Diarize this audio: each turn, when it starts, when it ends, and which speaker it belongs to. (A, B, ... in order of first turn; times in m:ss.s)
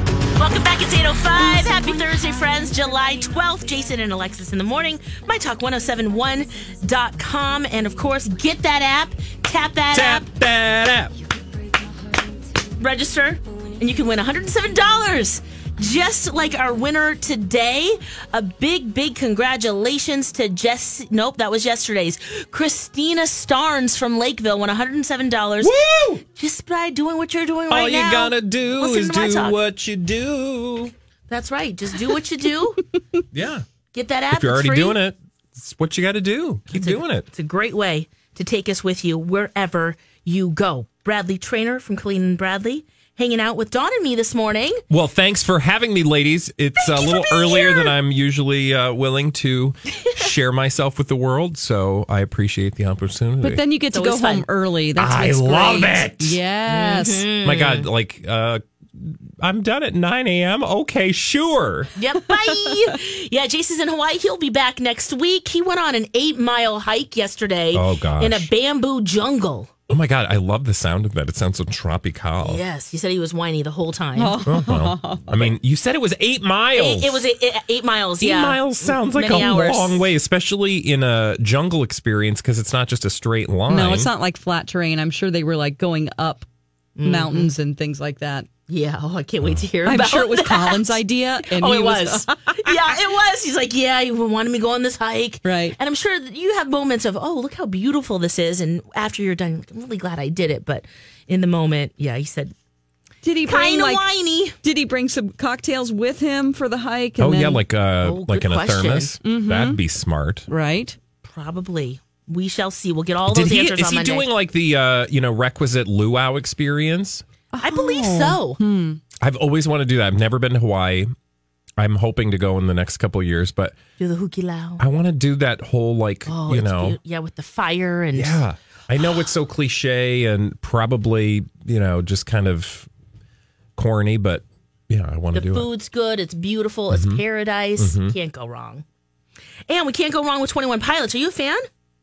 0:00.4-0:10.3 A
0:09.9-0:11.1 B
0:12.8-0:25.7 A
0:25.6-0:26.2 B
0:26.4-0:29.6 A
0:27.7-0:30.9 B
0:31.3-0:32.8 A
0:33.3-0:33.6 B
0:33.9-0:35.0 A
0:34.3-0:37.3 B
0:36.7-0:44.8 A
0:44.9-0:53.6 B
0:46.8-0:47.8 C
0:53.4-0:57.2 C
0:53.9-0:54.5 A
0:55.0-0:56.4 B
0:56.7-0:57.9 A
0:57.4-1:01.9 B
1:02.0-1:09.8 A
1:07.7-1:08.5 B
1:09.9-1:12.6 B
1:12.4-1:14.4 A
1:14.2-1:15.5 C
1:14.5-1:17.2 B
1:16.7-1:20.1 A
1:18.2-1:24.1 B
1:23.7-1:26.5 C
1:27.0-1:27.5 A
1:27.0-1:28.5 C
1:28.7-1:42.5 A
1:29.4-1:29.7 B
1:29.9-1:32.8 C
1:35.4-1:35.8 C
1:43.2-1:44.0 C
1:43.5-1:44.6 A
1:44.6-1:47.6 C
1:47.2-1:50.5 B
1:48.0-1:49.2 A
1:49.2-1:49.8 C
1:50.5-1:51.0 C
1:51.2-1:54.3 A
1:53.3-1:57.2 B
1:57.5-1:59.0 C
1:57.6-1:58.6 A
1:59.2-2:01.1 B
2:01.8-2:03.8 B
2:04.0-2:04.8 A
2:04.8-2:07.0 B
2:06.3-2:08.4 A
2:08.1-2:12.9 B
2:13.8-2:15.7 B
2:15.3-2:18.8 A
2:16.9-2:17.2 B
2:17.8-2:18.2 B
2:19.7-2:21.7 A